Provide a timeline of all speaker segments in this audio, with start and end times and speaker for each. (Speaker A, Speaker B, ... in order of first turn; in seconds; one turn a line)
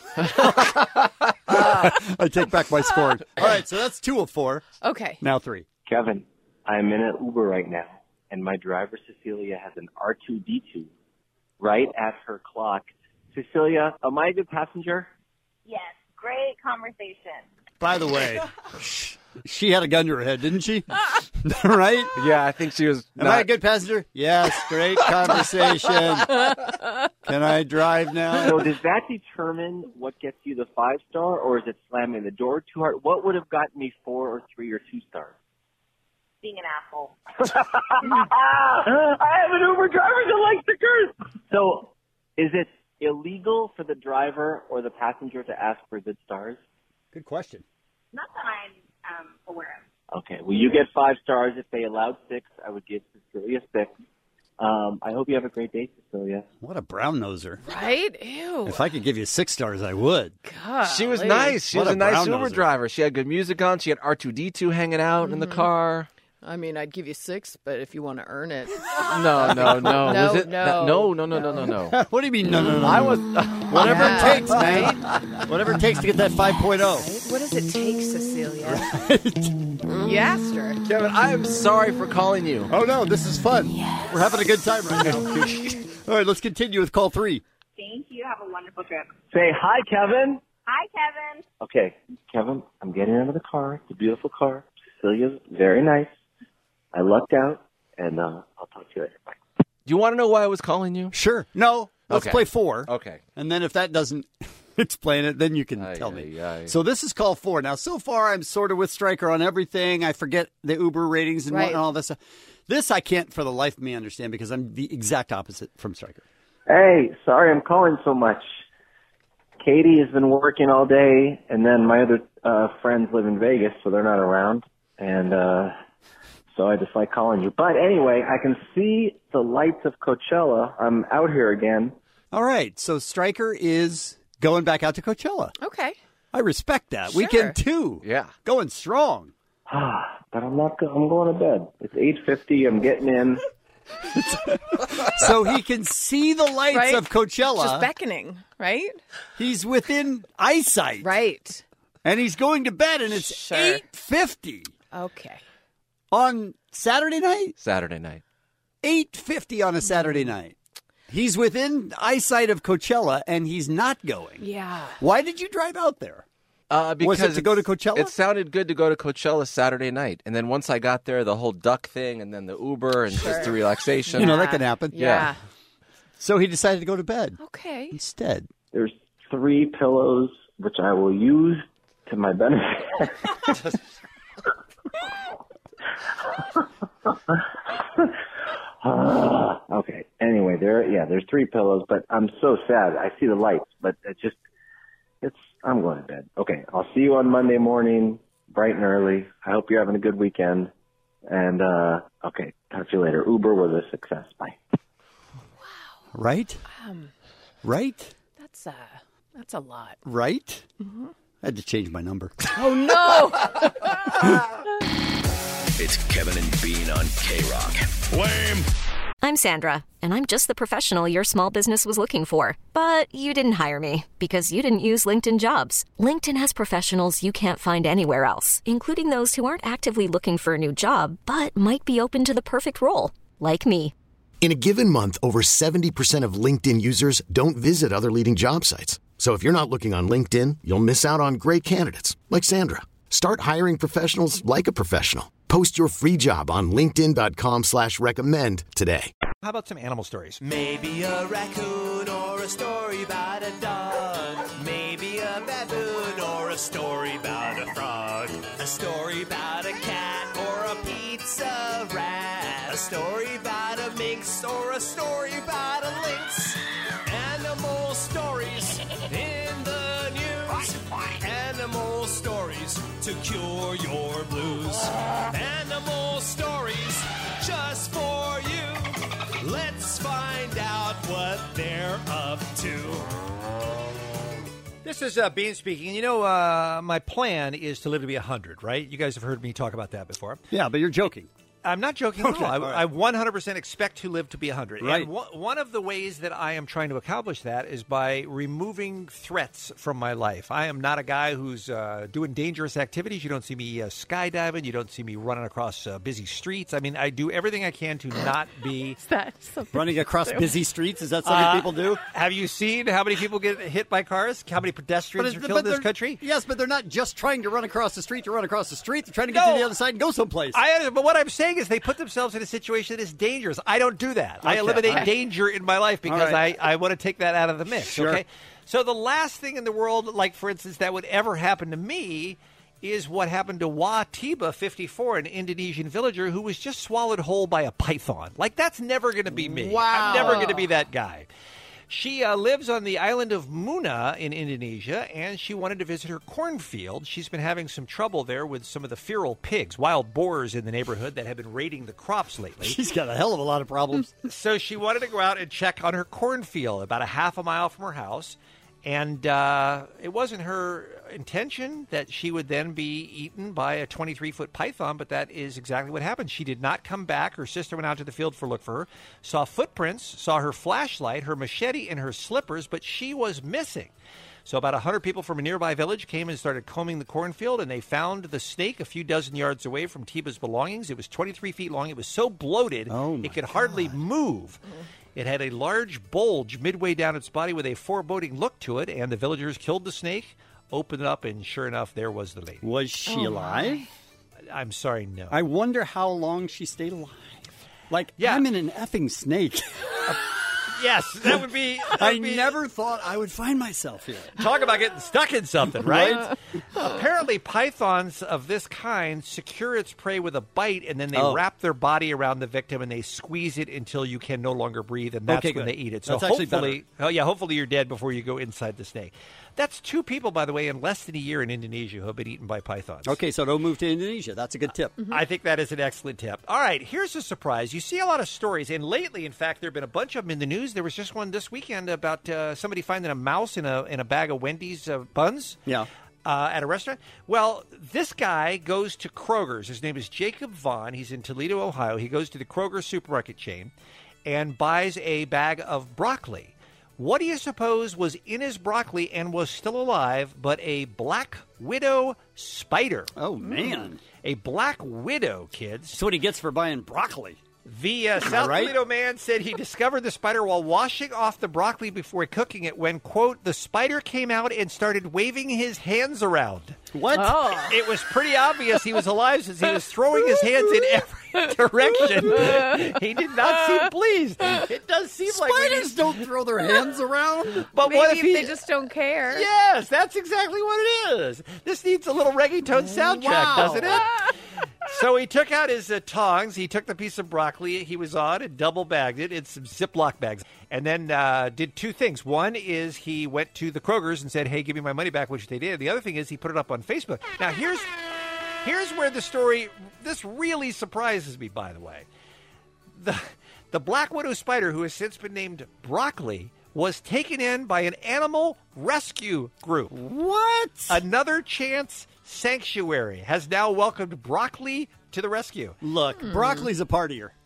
Speaker A: 0.2-1.7
Speaker B: 0.3-0.8
Speaker B: 1.5-4.7
Speaker C: 4.8-5.2
Speaker B: 5.2-5.7
Speaker D: 5.8-10.9
Speaker D: 11.6-15.1
Speaker E: 15.7-17.4
Speaker B: 17.8-22.1
Speaker A: 22.1-23.5
Speaker B: 23.2-26.4
Speaker B: 27.2-28.7
Speaker D: 28.4-35.3
Speaker E: 36.4-37.1
Speaker D: 37.4-46.6
Speaker B: 47.1-47.6
Speaker E: 48.1-49.8
Speaker D: 50.1-53.9
Speaker D: 54.6-56.5
Speaker B: 56.6-57.6
Speaker C: 57.6-58.8
Speaker B: 58.6-60.3
Speaker C: 60.4-61.6
Speaker A: 60.8-66.1
Speaker B: 61.7-62.6
Speaker C: 65.2-65.7
Speaker C: 66.4-71.7
Speaker A: 69.1-72.0
Speaker B: 71.9-77.1
Speaker A: 72.5-74.9
Speaker C: 73.7-75.0
Speaker C: 77.0-78.9
Speaker B: 78.6-79.5
Speaker C: 79.9-80.8
Speaker A: 80.8-82.7
Speaker B: 82.7-87.4
Speaker E: 87.8-89.2
Speaker D: 89.3-90.4
Speaker E: 90.7-91.4
Speaker D: 91.6-96.1
Speaker D: 96.9-99.4
Speaker A: 99.8-101.2
Speaker B: 101.1-116.2
Speaker A: 102.1-103.2
Speaker A: 105.8-106.8
Speaker C: 111.5-111.8
Speaker D: 116.7-118.5
Speaker D: 119.6-125.7
Speaker D: 126.5-131.9
Speaker B: 132.3-135.5
Speaker C: 135.6-136.0
Speaker B: 136.3-139.3
Speaker C: 137.1-137.6
Speaker A: 138.0-138.3
Speaker D: 139.7-143.4
Speaker B: 144.1-147.9
Speaker C: 146.7-149.0
Speaker B: 149.4-151.1
Speaker C: 151.0-151.6
Speaker B: 152.0-154.7
Speaker C: 153.1-153.8
Speaker C: 154.9-155.4
Speaker B: 156.1-157.6
Speaker A: 157.6-158.2
Speaker B: 158.8-160.5
Speaker C: 159.9-160.2
Speaker B: 161.1-164.4
Speaker C: 164.4-165.0
Speaker B: 165.0-166.2
Speaker A: 166.7-175.3
Speaker B: 167.0-168.2
Speaker C: 173.2-175.3
Speaker B: 174.1-175.2
Speaker B: 176.2-177.4
Speaker C: 177.4-177.9
Speaker B: 177.9-178.5
Speaker D: 178.7-183.4
Speaker D: 186.3-188.1
Speaker D: 188.8-194.4
Speaker D: 195.2-200.7
Speaker D: 201.3-204.6
Speaker C: 205.6-206.0
Speaker B: 206.1-206.6
Speaker C: 206.7-207.1
Speaker B: 207.6-208.1
Speaker C: 208.4-210.0
Speaker B: 210.0-210.7
Speaker C: 210.8-211.1
Speaker B: 211.4-213.2
Speaker C: 212.6-214.3
Speaker F: 215.8-218.0
Speaker G: 219.2-233.9
Speaker H: 234.4-249.1
Speaker I: 249.4-250.4
Speaker J: 250.4-283.1
Speaker I: 284.8-290.4
Speaker B: 290.5-291.3
Speaker I: 291.6-309.0
Speaker B: 292.2-292.8
Speaker B: 294.8-295.1
Speaker C: 309.0-310.6
Speaker B: 309.7-312.0
Speaker I: 311.2-316.2
Speaker B: 315.2-320.6
Speaker I: 319.3-319.8
Speaker I: 320.5-341.3
Speaker B: 324.4-325.1
Speaker B: 326.1-326.5
Speaker B: 327.8-328.2
Speaker C: 339.8-340.6
Speaker I: 341.9-352.8
Speaker B: 352.6-354.1
Speaker I: 354.2-373.9
Speaker I: 374.4-384.6
Speaker B: 382.9-384.0
Speaker I: 385.1-392.6
Speaker B: 392.6-393.8
Speaker C: 393.1-393.9
Speaker I: 394.5-395.4
Speaker B: 395.3-397.4
Speaker B: 397.9-400.0
Speaker I: 398.2-398.4
Speaker I: 400.1-402.6
Speaker B: 401.9-404.4
Speaker I: 404.4-423.2
Speaker B: 405.7-406.3
Speaker B: 411.1-411.4
Speaker B: 415.3-416.8
Speaker B: 423.1-425.0
Speaker I: 425.1-435.6
Speaker I: 436.2-443.7
Speaker I: 444.2-453.1
Speaker B: 453.2-454.0
Speaker I: 454.2-456.0
Speaker B: 455.9-457.4
Speaker I: 457.6-466.8
Speaker B: 458.2-458.8
Speaker B: 466.9-467.4
Speaker C: 467.1-467.8
Speaker I: 467.7-476.2
Speaker C: 472.3-472.7
Speaker B: 475.3-477.6
Speaker I: 477.6-478.6
Speaker C: 477.8-479.4
Speaker I: 479.3-484.3
Speaker B: 483.2-483.7
Speaker C: 483.4-484.0
Speaker I: 484.8-497.9
Speaker I: 498.6-502.1
Speaker I: 502.9-509.9
Speaker B: 509.9-511.0
Speaker I: 510.9-515.8
Speaker B: 515.8-517.3
Speaker C: 516.2-516.7